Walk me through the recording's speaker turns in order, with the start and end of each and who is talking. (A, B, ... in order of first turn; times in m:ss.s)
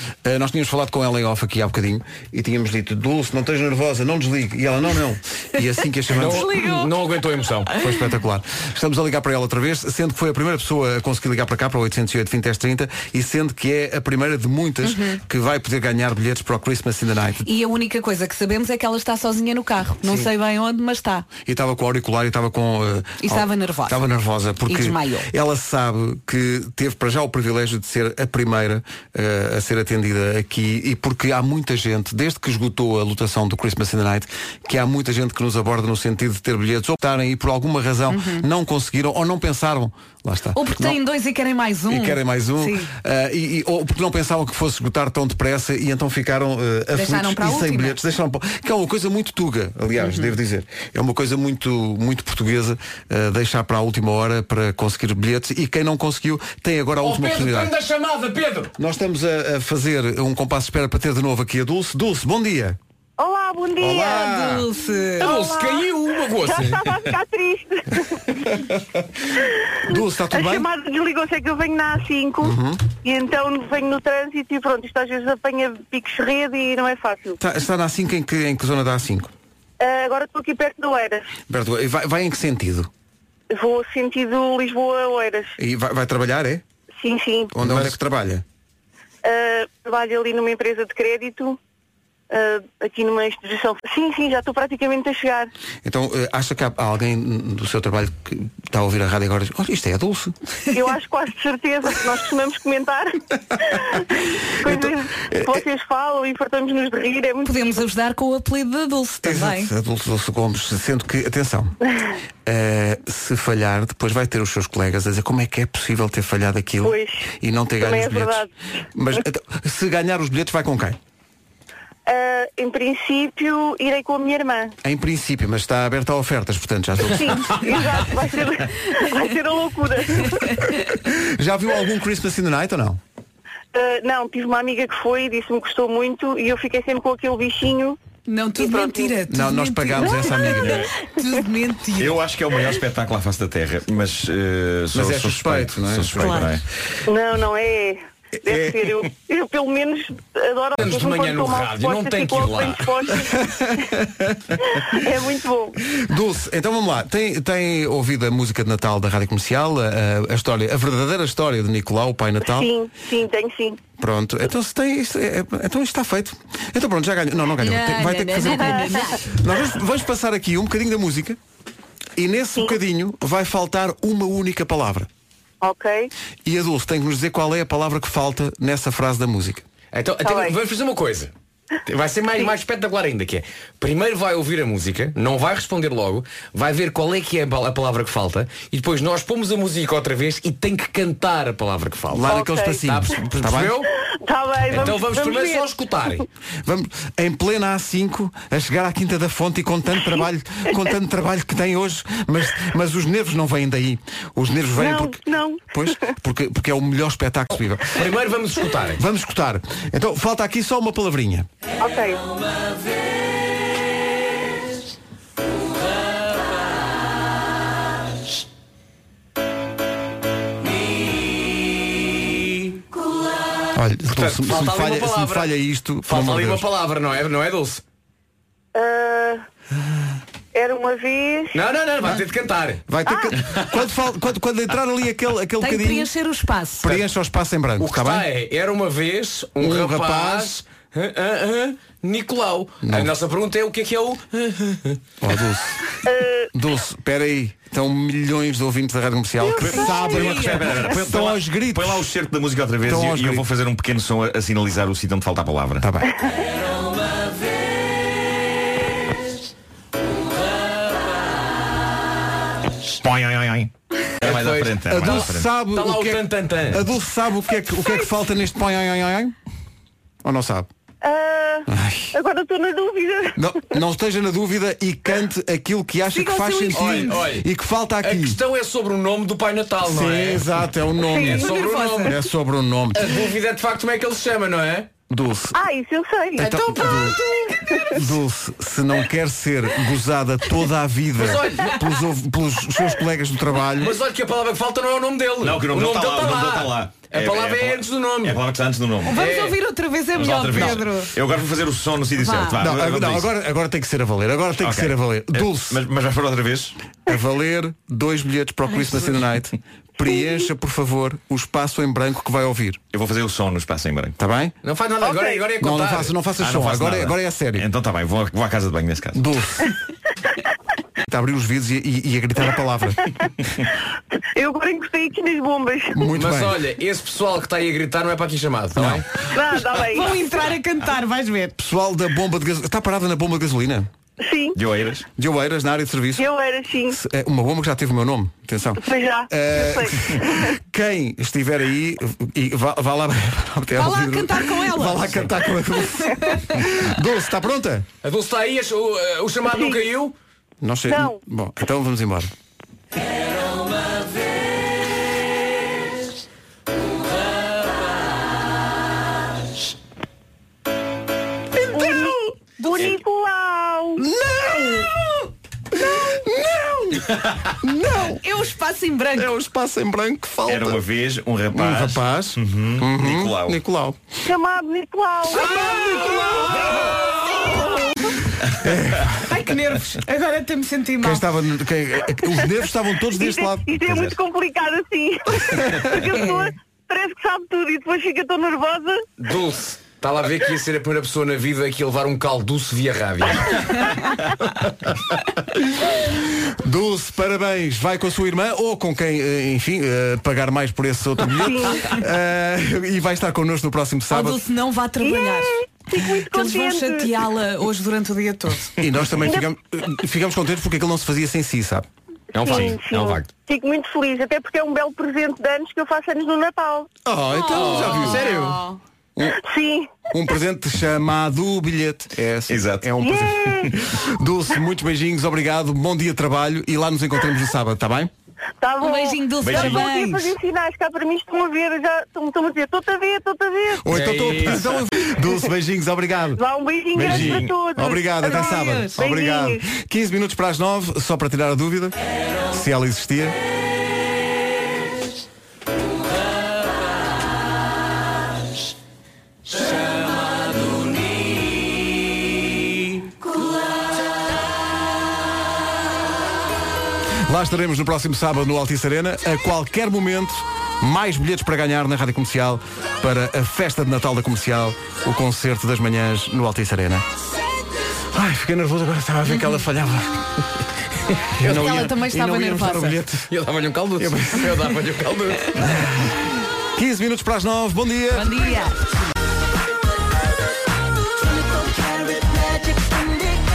0:00.2-0:06.5 A
0:06.2-0:07.7 B
0:06.2-0:07.0 C
0:07.7-0:08.1 C
0:07.8-0:17.5 A
0:14.8-0:15.2 C
0:17.4-0:21.3 C
0:20.0-0:20.3 A
0:21.4-0:41.0 A
0:23.2-0:24.0 C
0:24.7-0:25.3 C
0:38.1-0:38.5 C
0:40.5-0:42.9 C
0:41.9-0:57.7 A
0:46.9-0:48.0 C
0:50.0-0:50.4 C
0:57.0-0:58.7 B
0:58.8-1:02.8 A
1:03.2-1:04.4 D
1:03.8-1:04.7 A
1:04.1-1:05.4 C
1:05.2-1:08.2 D
1:05.2-1:06.9 B
1:09.9-1:10.7 A
1:10.3-1:17.4 D
1:12.4-1:12.8 A
1:17.4-1:19.3 A
1:19.8-1:21.2 D
1:21.5-1:22.9 A
1:23.5-1:25.5 D
1:25.6-1:26.6 A
1:27.0-1:27.5 D
1:27.5-1:28.4 A
1:27.6-1:27.9 B
1:29.2-1:31.6 D
1:32.3-1:35.5 D
1:35.8-1:40.4 A
1:40.7-1:43.1 D
1:43.7-1:44.0 D
1:44.6-1:47.8 D
1:44.6-1:45.6 A
1:47.4-1:49.7 C
1:49.2-1:51.8 A
1:52.5-2:01.0 A
1:56.8-1:58.5 D
2:02.1-2:04.7 D
2:04.8-2:07.6 A
2:07.1-2:10.3 D
2:11.1-2:13.0 A
2:13.7-2:18.0 D
2:18.3-2:22.2 C
2:18.6-2:19.1 D
2:19.3-2:20.9 A
2:22.0-2:26.6 E
2:24.9-2:26.5 A
2:26.2-2:26.5 C
2:27.1-2:33.4 D
2:30.8-2:32.9 B
2:33.3-2:34.6 A
2:34.7-2:35.8 D
2:36.0-2:42.7 A
2:42.4-2:43.8 D
2:44.0-2:51.4 A
2:47.6-2:49.1 C
2:48.6-2:48.9 D
2:52.2-2:55.1 A
2:55.6-2:56.1 D
2:56.4-2:59.6 A
2:59.9-3:01.3 B
3:00.2-3:00.6 D
3:01.9-3:13.9 B
3:12.1-3:13.8 A
3:12.2-3:12.8 D
3:14.2-3:15.7 D
3:14.7-3:16.2 B
3:16.7-3:28.0 A
3:24.8-3:25.6 D
3:27.9-3:29.0 B
3:29.0-3:31.5 A
3:31.8-3:32.2 D
3:43.8-3:46.6 A
3:44.1-3:45.5 B
3:46.1-3:47.8 B
3:48.8-3:49.4 D
3:50.5-3:51.6 D
3:51.5-3:52.8 B
3:52.9-3:56.1 A
3:53.1-3:53.3 D
3:55.6-3:56.9 C
3:56.8-3:58.3 A
3:57.8-4:05.0 B
3:59.6-4:00.6 A
4:02.8-4:03.1 A
4:05.2-4:05.8 A
4:06.1-4:06.5 D
4:06.5-4:12.1 A
4:09.6-4:10.8 C
4:09.6-4:15.8 E
4:12.8-4:13.5 A
4:15.8-4:16.1 A
4:23.0-4:25.5 E
4:24.2-4:26.8 B
4:24.3-4:29.4 A
4:30.2-4:30.7 A
4:31.0-4:33.4 D
4:31.7-4:32.2 A
4:33.4-4:38.4 A
4:36.1-4:37.1 C
4:36.7-4:37.5 B
4:38.0-4:40.5 B
4:39.9-4:43.1 A
4:41.1-4:42.2 B
4:41.2-4:41.4 D
4:41.2-4:42.1 C
4:42.9-4:44.9 B
4:45.1-4:45.6 A
4:45.5-4:47.9 D
4:46.4-4:47.2 A
4:46.4-4:47.0 C
4:47.8-4:53.9 A
4:51.2-4:51.8 B
4:53.8-4:58.4 B
4:55.4-4:59.2 E
4:59.1-5:01.1 C
4:59.1-4:59.6 B
5:00.2-5:03.3 E
5:00.2-5:00.8 B
5:02.2-5:02.6 C
5:02.6-5:05.8 A
5:04.6-5:06.8 E
5:07.1-5:12.8 A
5:12.9-5:14.2 E
5:14.2-5:14.6 A
5:14.6-5:16.1 B
5:15.0-5:15.5 D
5:15.6-5:17.7 A
5:16.4-5:19.2 E
5:19.2-5:19.7 A
5:21.1-5:23.1 A
5:24.4-5:26.0 D
5:25.9-5:26.6 A
5:26.1-5:29.1 B
5:28.8-5:29.0 A
5:29.3-5:30.2 D
5:29.6-5:31.6 C
5:31.6-5:33.9 A
5:34.2-5:34.6 D
5:34.6-5:35.0 E
5:35.2-5:36.3 A
5:36.2-5:37.0 D
5:36.9-5:47.9 A
5:38.8-5:40.5 D
5:43.8-5:45.3 C
5:46.1-5:46.6 C
5:48.0-5:50.1 B
5:49.5-5:49.8 D
5:50.6-5:52.3 A
5:50.9-5:51.2 D
6:01.6-6:02.8 C
6:01.7-6:04.0 D
6:02.7-6:03.0 E
6:04.0-6:05.1 A
6:05.8-6:08.2 A
6:07.1-6:07.5 E
6:08.1-6:09.3 C
6:09.2-6:10.8 A
6:10.5-6:13.6 E
6:11.5-6:14.0 A
6:14.2-6:15.6 D
6:15.4-6:16.8 A
6:15.4-6:17.8 C
6:18.6-6:19.3 A
6:19.3-6:21.2 C
6:21.0-6:23.7 A
6:23.1-6:29.0 D
6:23.8-6:24.2 E
6:26.1-6:26.5 C
6:29.2-6:33.9 B
6:36.5-6:44.4 A
6:41.4-6:41.8 D
6:44.1-6:45.5 C
6:45.0-6:47.1 D
6:46.1-6:48.7 C
6:48.8-6:51.9 A
6:52.3-6:53.3 B
6:52.4-6:56.9 D
6:52.5-6:52.8 E
6:57.1-6:58.4 A
6:57.3-6:58.8 C
6:57.5-6:58.6 B
6:59.4-7:00.0 D
7:00.1-7:08.1 A
7:02.5-7:02.9 E
7:03.0-7:03.7 D
7:08.6-7:13.9 D
7:08.8-7:10.4 C
7:09.4-7:09.9 E
7:13.8-7:16.4 A
7:13.9-7:14.8 B
7:16.4-7:19.6 D
7:17.0-7:22.0 A
7:17.0-7:17.5 E
7:18.2-7:19.0 C
7:22.5-7:23.4 A
7:37.3-7:47.0 A
7:48.1-7:50.3 A
7:51.4-7:53.3 A
7:51.4-7:51.8 B
7:51.5-7:53.0 C
7:53.3-7:55.6 B
7:54.0-7:54.6 A
7:55.6-7:56.1 A
7:56.8-7:58.3 A
7:58.1-7:58.8 C
8:01.7-8:03.2 C